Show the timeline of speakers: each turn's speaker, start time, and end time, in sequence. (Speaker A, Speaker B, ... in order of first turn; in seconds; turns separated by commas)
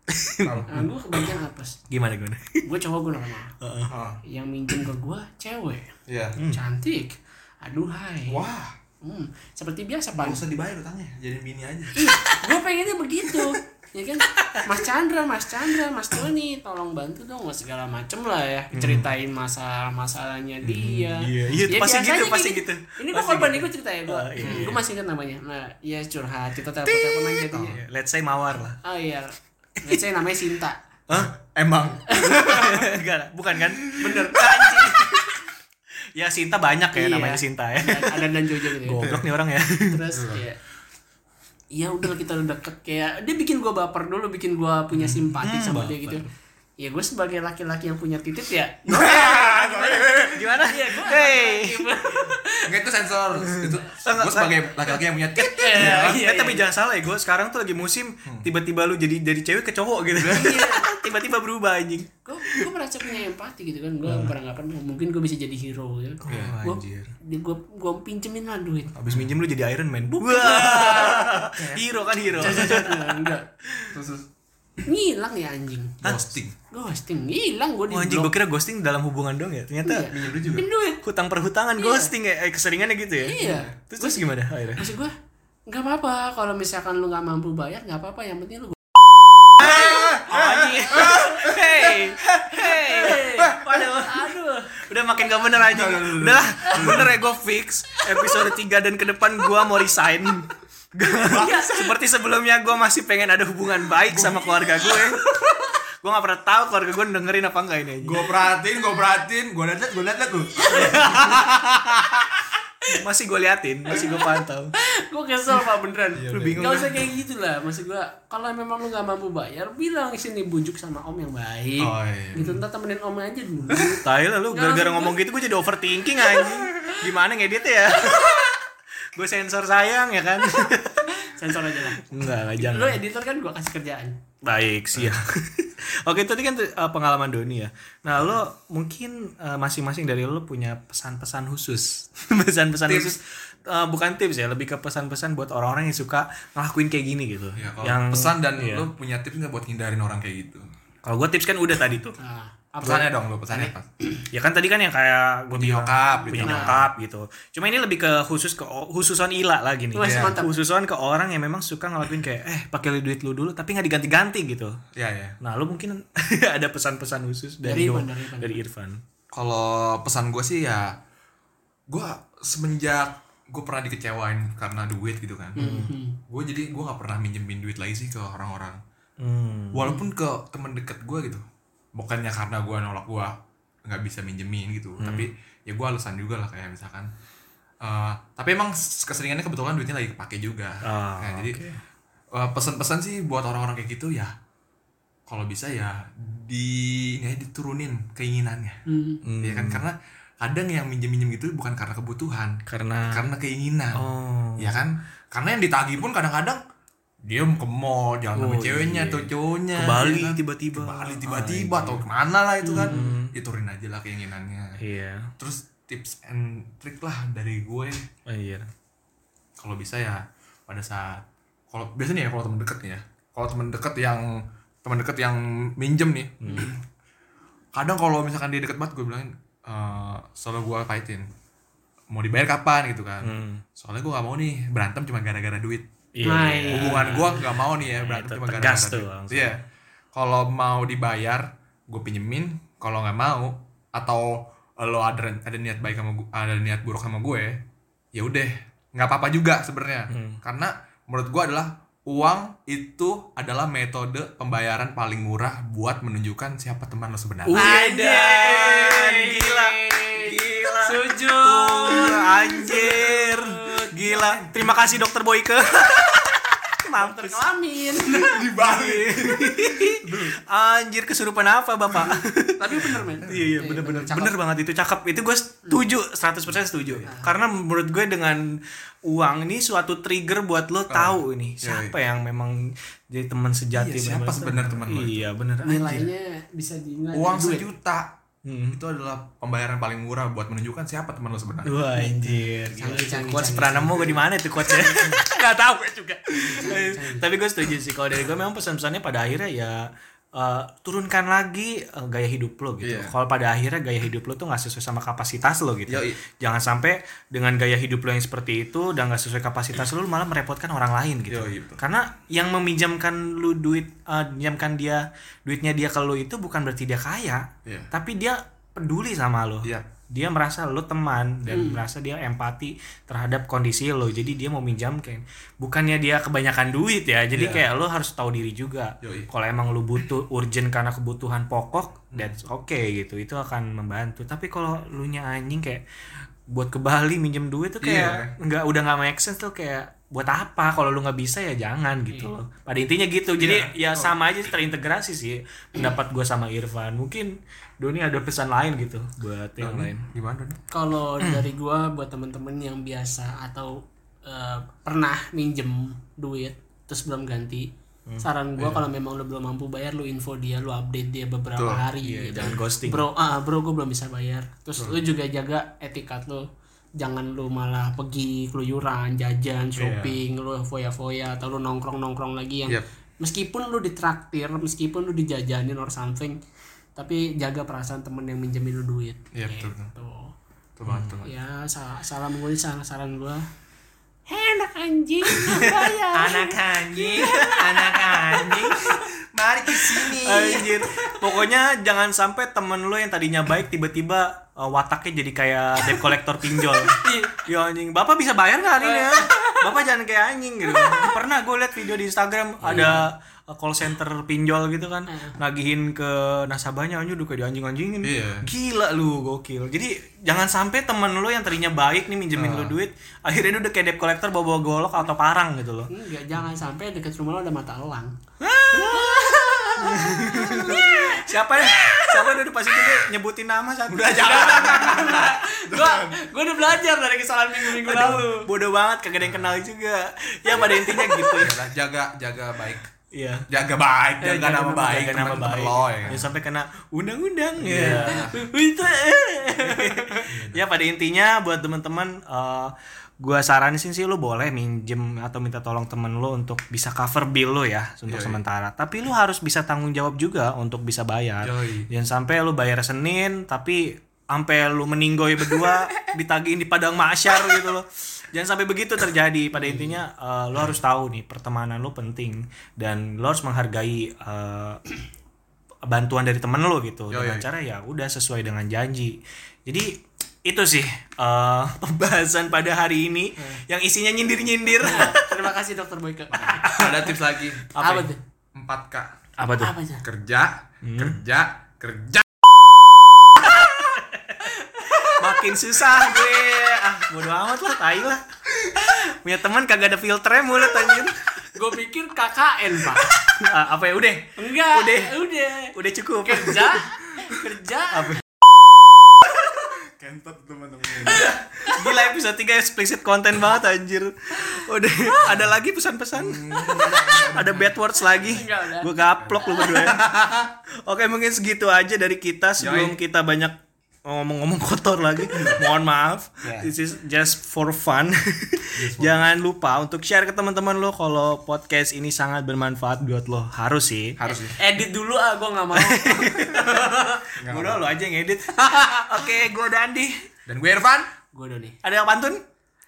Speaker A: 0.1-0.8, Speaker B: 0.4-0.8, Speaker C: 0.7-1.8, Speaker A: 1.9-2.6, Speaker C: 2.6-3.5, Speaker A: 3.6-3.9, Speaker B: 3.9-4.2, Speaker C: 4.2-5.9, Speaker B: 6.1-6.4, Speaker C: 6.4-8.4, Speaker B: 8.3-8.7, Speaker C: 9.0-10.4, Speaker B: 10.2-12.1, Speaker C: 11.9-27.8, Speaker A: 14.4-14.7, Speaker A: 18.7-19.1, Speaker A: 20.6-24.8, Speaker B: 24.4-24.8, Speaker A: 26.8-28.8, Speaker C: 28.8-30.8, Speaker A: 31.1-31.3, Speaker B: 31.1-32.9, Speaker C: 32.0-32.9, Speaker A: 32.3-35.4, Speaker B: 33.8-34.2, Speaker C: 34.0-35.1, Speaker A: 36.1-40.0, Speaker C: 36.9-39.0, Speaker C: 39.9-40.6, Speaker B: 40.1-40.4, Speaker C: 41.7-46.2, Speaker A: 45.4-46.2, Speaker C: 46.8-52.7, Speaker B: 48.9-50.5, Speaker A: 50.3-51.9, Speaker B: 52.6-56.2, Speaker A: 53.4-62.7, Speaker C: 55.4-56.6, Speaker B: 60.2-60.5, Speaker C: 60.2-60.9, Speaker C: 62.2-68.9, Speaker A: 64.0-64.3, Speaker A: 66.2-67.1, Speaker B: 66.3-66.6, Speaker B: 68.9-69.3, Speaker A: 69.0-73.9, Speaker C: 70.2-71.6, Speaker B: 71.6-72.7, Speaker C: 72.3-73.4, Speaker B: 73.9-74.3, Speaker C: 74.8-76.1, Speaker B: 76.0-76.5, Speaker C: 76.7-78.3, Speaker A: 77.9-80.2, Speaker C: 79.8-81.0, Speaker B: 80.1-80.6, Speaker A: 81.0-84.9, Speaker C: 81.8-82.1, Speaker C: 83.2-85.1, Speaker B: 83.4-83.7, Speaker C: 85.7-88.9, Speaker B: 89.5-93.7, Speaker A: 89.6-108.2, Speaker C: 89.6-90.1, Speaker C: 91.1-95.5, Speaker B: 95.7-97.2, Speaker C: 96.6-97.0, Speaker C: 98.1-98.5, Speaker B: 101.1-101.6, Speaker C: 101.1-101.9, Speaker B: 104.1-104.7, Speaker C: 104.8-105.7, Speaker B: 108.0-111.6, Speaker C: 110.6-111.1, Speaker A: 110.7-112.1, Speaker A: 112.8-114.7, Speaker C: 113.9-125.2, Speaker B: 116.1-117.0, Speaker A: 116.3-116.9, Speaker B: 121.8-122.6, Speaker B: 123.7-124.0, Speaker A: 124.0-128.6, Speaker C: 126.2-127.0, Speaker C: 128.1-128.5, Speaker A: 129.1-133.0, Speaker C: 131.1-134.2, Speaker A: 134.4-148.9, Speaker B: 142.9-143.2, Speaker B: 147.6-150.6, Speaker A: 151.0-152.2, Speaker C: 152.2-154.2, Speaker B: 152.8-153.9, Speaker A: 154.3-164.8, Speaker B: 155.5-156.9, Speaker C: 156.3-156.8, Speaker C: 159.9-160.5, Speaker B: 160.0-160.4, Speaker B: 164.9-165.4, Speaker A: 165.4-169.0, Speaker C: 167.6-168.6, Speaker B: 169.3-171.0, Speaker B: 171.9-175.6, Speaker C: 175.6-176.2, Speaker A: 175.6-175.9, Speaker B: 176.3-178.8, Speaker A: 179.2-179.9, Speaker B: 179.7-181.4, Speaker B: 181.9-183.3, Speaker B: 183.8-187.1, Speaker A: 185.0-185.3, Speaker B: 187.8-191.8, Speaker A: 190.8-191.7, Speaker B: 192.3-194.3, Speaker B: 195.3-198.8, Speaker C: 198.9-199.2, Speaker A: 199.2-199.8, Speaker B: 199.4-204.0, Speaker A: 202.7-203.3, Speaker A: 203.9-204.8, Speaker B: 204.6-206.6, Speaker B: 207.2-214.8, Speaker A: 208.3-212.0, Speaker C: 212.6-213.1, Speaker A: 212.7-213.3, Speaker A: 214.8-215.3, Speaker B: 215.4-218.0, Speaker A: 218.3-218.7, Speaker B: 219.6-226.7, Speaker A: 226.4-226.7, Speaker C: 226.5-226.7, Speaker B: 227.7-231.3, Speaker B: 232.1-235.9, Speaker A: 233.2-233.6, Speaker A: 236.1-239.6, Speaker C: 236.2-237.4, Speaker B: 236.7-239.6, Speaker B: 240.1-247.6, Speaker B: 248.1-257.6, Speaker A: 250.1-250.4, Speaker A: 257.5-286.0, Speaker C: 257.5-264.7, Speaker C: 266.9-268.5, Speaker B: 268.3-270.4, Speaker B: 271.9-272.2, Speaker C: 272.6-274.3, Speaker B: 273.2-273.5, Speaker B: 276.5-277.1, Speaker B: 280.9-281.9, Speaker B: 283.7-285.3, Speaker C: 285.6-287.7, Speaker B: 287.1-288.1, Speaker A: 288.4-288.8, Speaker B: 288.7-291.7, Speaker A: 291.6-295.4, Speaker C: 291.9-297.3, Speaker A: 296.4-335.8, Speaker B: 302.8-303.1, Speaker B: 305.9-306.2, Speaker B: 311.3-311.8, Speaker B: 317.6-317.9, Speaker C: 321.5-321.8, Speaker B: 327.3-327.7, Speaker B: 329.0-329.3, Speaker A: 336.5-350.0, Speaker B: 337.8-338.3, Speaker B: 343.4-344.1, Speaker B: 349.6-350.6, Speaker C: 350.7-357.7, Speaker C: 358.2-366.4, Speaker B: 358.6-358.8, Speaker B: 361.6-361.8, Speaker A: 362.0-363.1, Speaker C: 367.0-376.4, Speaker B: 369.8-370.1, Speaker C: 376.9-380.3, Speaker B: 379.3-379.9, Speaker B: 380.8-381.3, Speaker C: 381.2-383.4, Speaker C: 384.3-389.0, Speaker A: 385.5-385.9, Speaker B: 386.1-390.9, Speaker A: 387.2-388.3, Speaker A: 390.1-415.9, Speaker C: 390.3-391.1, Speaker C: 396.9-397.4, Speaker C: 398.8-399.7, Speaker C: 400.7-401.1, Speaker B: 402.6-403.0, Speaker C: 402.6-403.0, Speaker C: 405.1-405.4, Speaker B: 408.0-408.5, Speaker B: 412.3-412.8, Speaker C: 415.9-418.2, Speaker A: 418.4-425.0, Speaker C: 418.7-422.4, Speaker B: 423.9-426.2, Speaker C: 424.1-428.5, Speaker A: 427.7-431.6, Speaker B: 429.2-429.6, Speaker C: 430.6-431.3, Speaker B: 431.3-432.9, Speaker A: 433.1-433.5, Speaker B: 433.5-436.3, Speaker C: 434.2-435.7, Speaker A: 434.8-464.8, Speaker B: 437.6-438.4, Speaker C: 437.6-438.9, Speaker C: 439.6-440.2, Speaker B: 440.3-440.6, Speaker B: 448.1-448.4, Speaker B: 451.4-451.9, Speaker C: 459.5-460.0, Speaker A: 465.9-475.5, Speaker B: 467.1-467.4, Speaker C: 474.8-477.1, Speaker A: 476.4-477.1, Speaker B: 476.6-477.6, Speaker A: 477.7-478.1, Speaker C: 477.8-478.2, Speaker B: 478.5-479.1, Speaker A: 479.4-479.8, Speaker C: 479.5-480.0, Speaker B: 480.0-482.3, Speaker A: 480.8-481.2, Speaker A: 483.4-491.5, Speaker C: 484.4-485.4, Speaker C: 485.9-486.7, Speaker C: 491.5-493.1, Speaker A: 493.1-496.8, Speaker C: 494.4-498.2, Speaker A: 497.9-498.2, Speaker B: 499.7-501.3, Speaker A: 501.0-510.0, Speaker C: 501.1-501.8, Speaker B: 505.2-505.5, Speaker B: 506.1-507.7, Speaker C: 508.0-510.0, Speaker B: 509.2-510.4, Speaker A: 510.9-524.2, Speaker B: 512.6-513.0, Speaker B: 515.3-515.6, Speaker B: 516.4-516.7, Speaker B: 518.8-519.3, Speaker B: 524.2-524.6, Speaker C: 524.5-527.2, Speaker A: 525.7-530.2, Speaker B: 527.4-527.9, Speaker C: 528.5-529.1, Speaker B: 530.5-531.1, Speaker C: 531.3-531.8, Speaker A: 531.8-532.4